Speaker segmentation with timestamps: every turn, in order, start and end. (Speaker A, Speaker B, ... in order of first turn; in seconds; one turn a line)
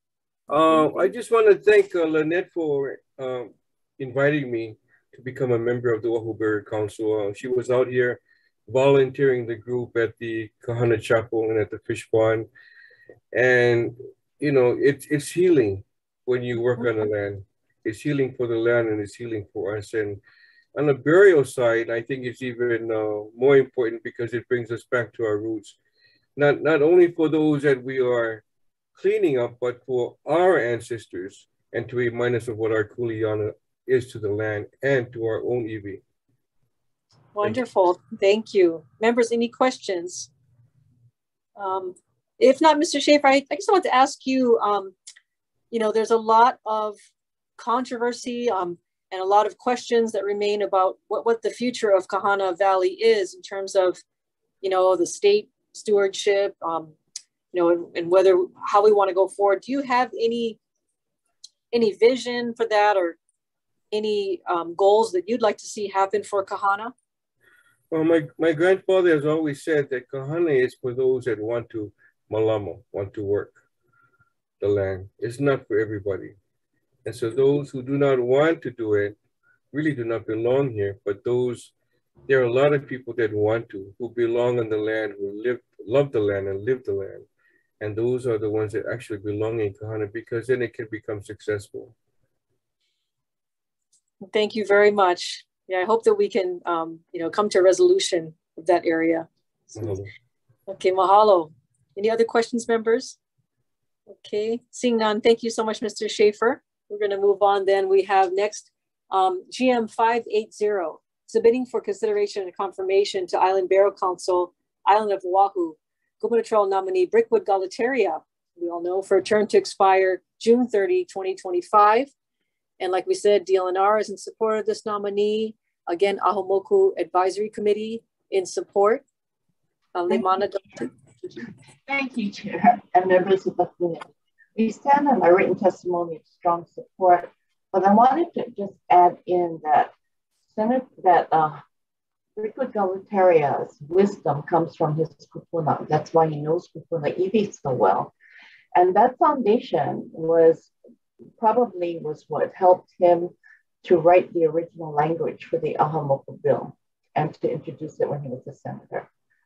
Speaker A: 0.5-12.5
Speaker A: 13.3-20.2
Speaker A: 20.7-25.8
Speaker A: 26.4-28.4
Speaker A: 28.9-36.0
Speaker B: 37.3-40.3
Speaker B: 41.6-44.9
Speaker B: 45.7-47.0
Speaker B: 47.6-54.0
Speaker B: 54.6-56.9
Speaker B: 57.5-60.6
Speaker B: 61.7-63.2
Speaker B: 63.9-66.9
Speaker A: 67.9-73.6
Speaker A: 74.6-76.3
Speaker A: 77.0-79.2
Speaker A: 79.7-81.7
Speaker A: 82.3-87.3
Speaker A: 87.8-91.9
Speaker B: 94.2-99.9
Speaker A: 99.7-100.1
Speaker B: 100.7-103.2
Speaker B: 104.1-122.1
Speaker B: 122.8-129.0
Speaker B: 129.9-130.9
Speaker C: 131.9-139.9
Speaker C: 140.5-141.6
Speaker C: 142.4-148.1
Speaker C: 148.7-150.7
Speaker C: 151.4-153.3
Speaker C: 153.8-159.1